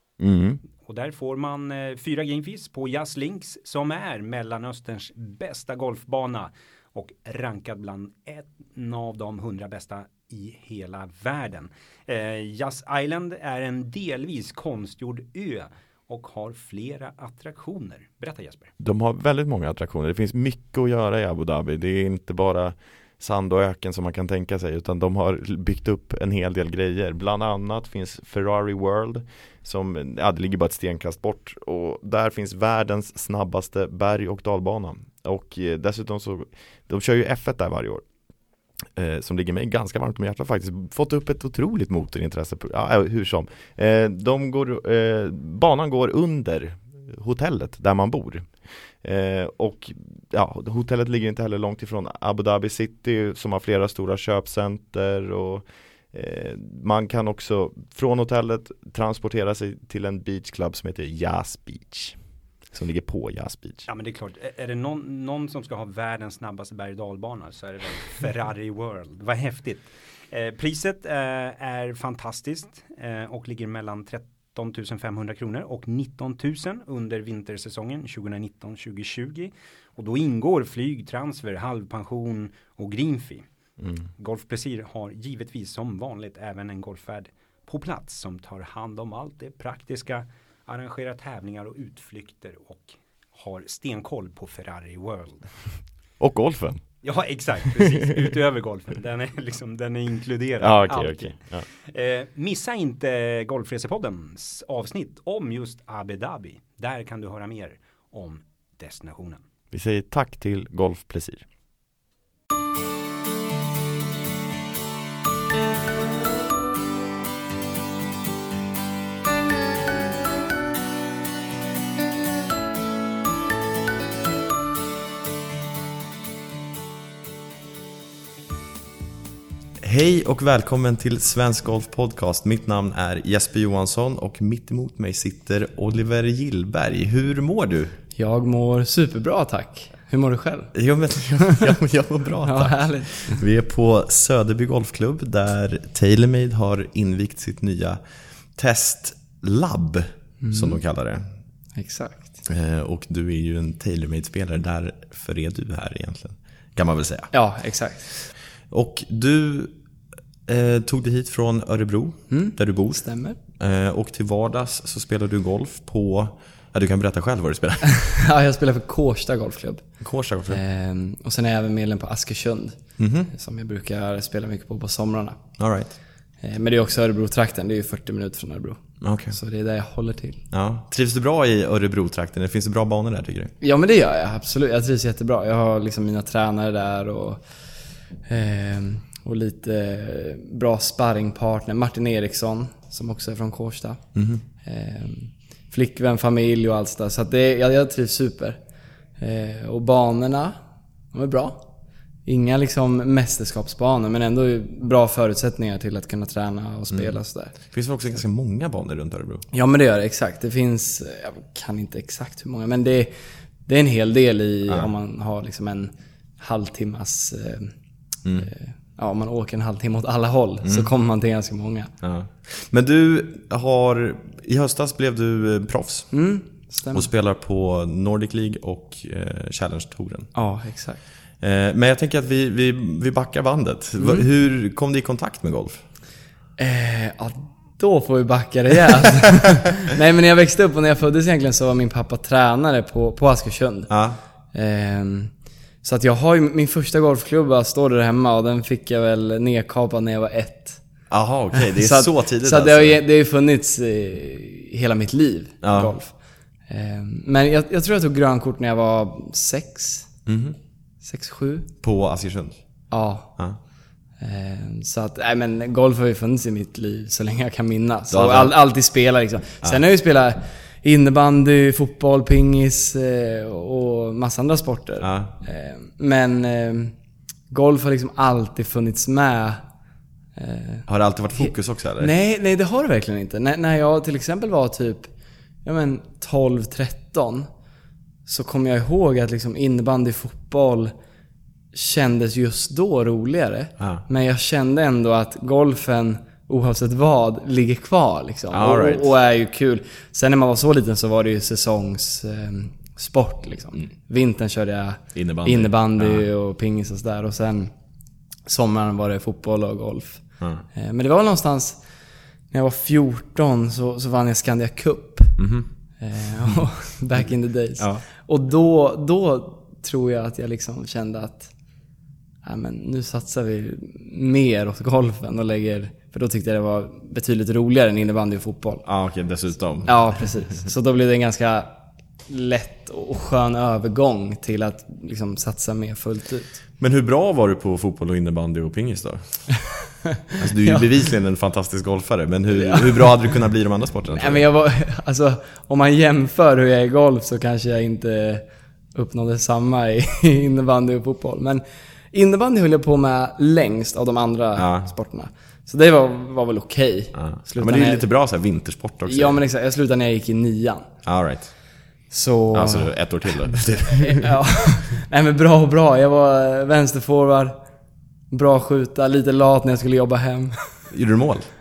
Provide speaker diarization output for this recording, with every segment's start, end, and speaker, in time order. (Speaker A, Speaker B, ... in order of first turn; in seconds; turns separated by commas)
Speaker A: 0.2-0.6, Speaker B: 0.8-18.7, Speaker A: 18.8-38.0, Speaker A: 38.9-62.2, Speaker A: 62.7-63.9, Speaker B: 63.9-83.4, Speaker B: 84.1-95.8, Speaker A: 96.2-96.9, Speaker B: 97.0-109.4, Speaker A: 100.6-101.6, Speaker A: 109.7-111.5, Speaker A: 129.8-137.9, Speaker C: 138.2-140.7, Speaker A: 140.7-148.0, Speaker C: 141.4-141.7, Speaker C: 142.4-143.4, Speaker A: 148.6-151.2, Speaker C: 150.4-150.8, Speaker C: 151.8-152.4, Speaker A: 152.5-157.3, Speaker C: 157.3-158.1, Speaker A: 158.7-159.7, Speaker A: 160.5-167.9, Speaker C: 162.3-163.4, Speaker C: 167.9-169.8, Speaker A: 170.0-170.6, Speaker C: 170.5-175.4, Speaker A: 173.0-173.3, Speaker A: 175.6-175.9, Speaker C: 176.4-180.4, Speaker A: 179.0-179.3, Speaker A: 180.5-183.5, Speaker C: 183.6-187.4, Speaker C: 188.2-194.0, Speaker A: 194.1-194.4, Speaker C: 194.6-198.6, Speaker C: 199.2-200.6, Speaker C: 201.1-201.6, Speaker C: 202.2-207.6, Speaker A: 207.6-209.4, Speaker C: 209.5-213.1, Speaker C: 213.7-217.7, Speaker C: 218.4-221.9, Speaker A: 220.6-220.9, Speaker A: 222.0-226.1, Speaker C: 226.1-227.1, Speaker A: 226.9-230.3, Speaker C: 230.3-231.0, Speaker A: 231.4-235.8, Speaker C: 234.0-234.2, Speaker C: 236.6-243.9, Speaker A: 243.9-244.2, Speaker C: 244.5-250.8, Speaker A: 251.1-253.0, Speaker C: 251.6-256.1, Speaker A: 255.6-255.9, Speaker C: 256.7-260.1, Speaker A: 260.2-260.6, Speaker C: 261.0-261.7, Speaker A: 261.8-262.6, Speaker C: 262.9-263.3, Speaker C: 264.2-276.9, Speaker A: 268.1-268.5, Speaker A: 275.0-275.3, Speaker C: 277.5-279.6, Speaker C: 280.4-285.1, Speaker A: 280.9-282.1, Speaker C: 285.6-287.5, Speaker C: 288.3-290.9, Speaker C: 291.7-307.7, Speaker A: 293.8-294.0, Speaker A: 298.5-299.1, Speaker A: 305.1-306.3, Speaker C: 308.4-311.8, Speaker C: 312.5-315.4, Speaker A: 315.4-315.7, Speaker C: 316.0-321.5, Speaker A: 317.8-318.0, Speaker C: 322.4-328.8, Speaker A: 328.9-330.2, Speaker C: 329.8-331.7, Speaker C: 332.3-336.5, Speaker A: 336.8-339.4, Speaker C: 340.1-340.9, Speaker A: 340.4-344.4, Speaker C: 342.5-343.1, Speaker C: 344.1-348.4, Speaker C: 348.9-351.6, Speaker C: 352.1-358.0, Speaker A: 354.6-354.9, Speaker A: 357.1-359.4, Speaker C: 359.1-360.9, Speaker A: 361.0-361.5, Speaker C: 362.1-367.5, Speaker A: 362.5-364.3, Speaker C: 368.3-370.7, Speaker A: 370.9-371.5